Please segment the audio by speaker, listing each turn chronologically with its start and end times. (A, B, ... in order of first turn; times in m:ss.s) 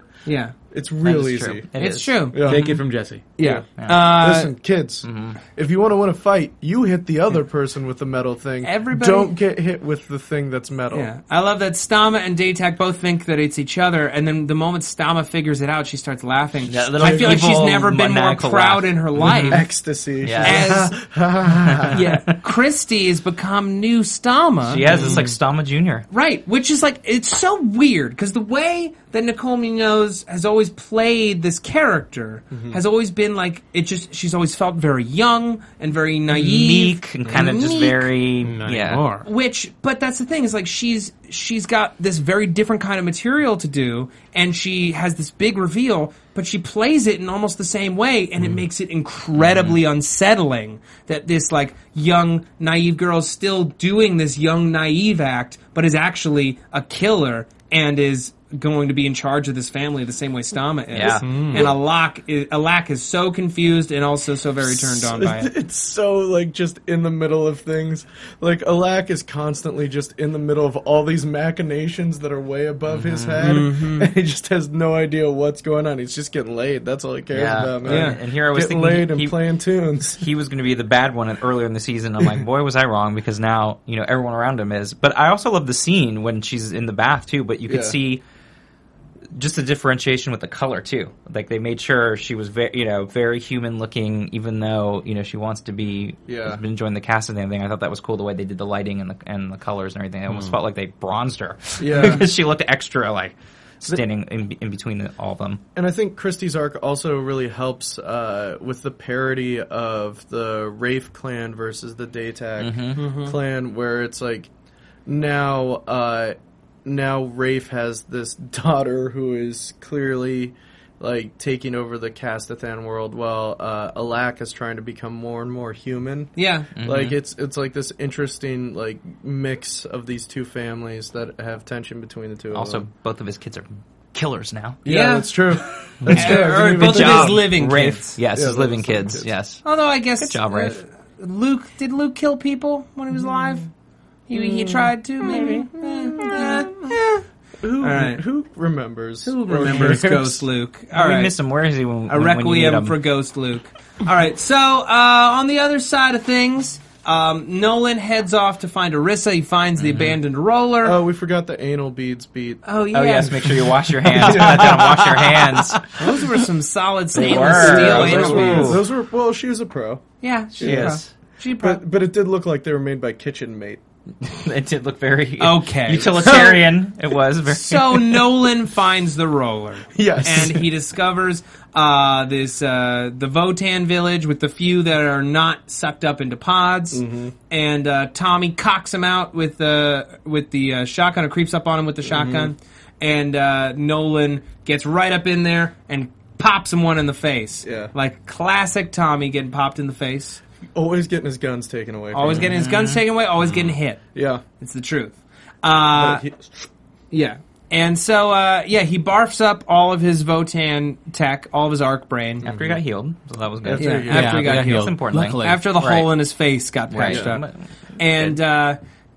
0:00.2-0:00.5 A
0:00.7-0:01.7 B
0:01.0-0:02.7 C
0:01.8-0:02.6 A
0:02.3-0:02.7 B
0:02.4-0:03.2 D
0:03.4-0:04.5 A
0:03.4-0:11.1 B
0:03.8-0:04.1 C
0:05.0-0:05.4 C
0:08.6-0:09.4 A
0:10.9-0:19.7 A
0:16.6-0:19.6 C
0:17.0-0:17.5 B
0:19.2-0:22.0 B
0:20.2-0:20.8 C
0:20.4-0:21.0 A
0:21.7-0:22.1 C
0:21.9-0:25.2 A
0:24.6-0:26.1 C
0:24.9-0:25.3 B
0:26.1-0:38.1 A
0:32.5-0:32.8 B
0:36.3-0:39.0 C
0:38.4-0:39.2 D
0:39.2-1:05.5 A
0:49.4-0:49.8 C
1:00.9-1:01.8 C
1:01.2-1:01.6 D
1:04.6-1:20.2 B
1:12.9-1:13.6 C
1:13.4-1:14.1 A
1:17.3-1:19.4 C
1:17.8-1:18.2 A
1:20.2-1:28.2 C
1:27.7-1:28.0 B
1:29.3-1:45.6 C
1:36.2-1:36.6 B
1:40.3-1:40.5 D
1:41.8-1:42.3 B
1:45.7-1:54.5 B
1:52.6-1:53.1 C
1:53.0-1:53.4 A
1:55.0-2:12.8 B
2:06.4-2:06.7 A
2:06.8-2:07.2 C
2:12.5-2:14.8 C
2:14.8-2:17.5 B
2:14.8-2:15.5 A
2:16.0-2:19.6 C
2:16.1-2:18.2 A
2:18.3-2:19.3 B
2:19.6-2:23.7 A
2:20.2-2:20.8 C
2:24.3-2:27.2 A
2:25.3-2:26.6 B
2:25.4-2:25.6 C
2:27.6-2:30.4 B
2:27.8-2:28.2 A
2:29.2-2:31.3 A
2:30.9-2:33.0 C
2:32.1-2:41.0 A
2:39.8-2:40.2 C
2:40.8-2:42.6 B
2:42.6-2:43.6 A
2:42.9-2:45.9 C
2:43.2-2:43.4 B
2:44.1-2:45.3 B
2:45.9-2:48.8 A
2:47.1-2:48.8 C
2:47.1-2:50.0 B
2:50.2-2:51.8 A
2:50.6-2:51.0 B
2:50.6-2:51.1 C
2:51.6-2:53.8 B
2:54.2-2:58.2 C
2:55.4-2:56.6 A
2:57.5-3:20.4 A
2:59.9-3:00.7 B
3:06.9-3:07.3 B
3:12.0-3:12.5 B
3:17.6-3:17.9 B
3:20.7-3:22.5 B
3:22.1-3:24.0 A
3:22.2-3:23.7 C
3:24.1-3:24.4 B
3:24.6-3:26.2 A
3:25.9-3:26.7 B
3:27.1-3:32.4 A
3:32.4-3:32.8 B
3:32.4-3:36.1 C
3:33.6-3:34.6 B
3:33.8-3:37.4 A
3:34.1-3:35.6 D
3:36.9-3:38.4 C
3:37.0-3:37.4 B
3:38.0-3:38.8 A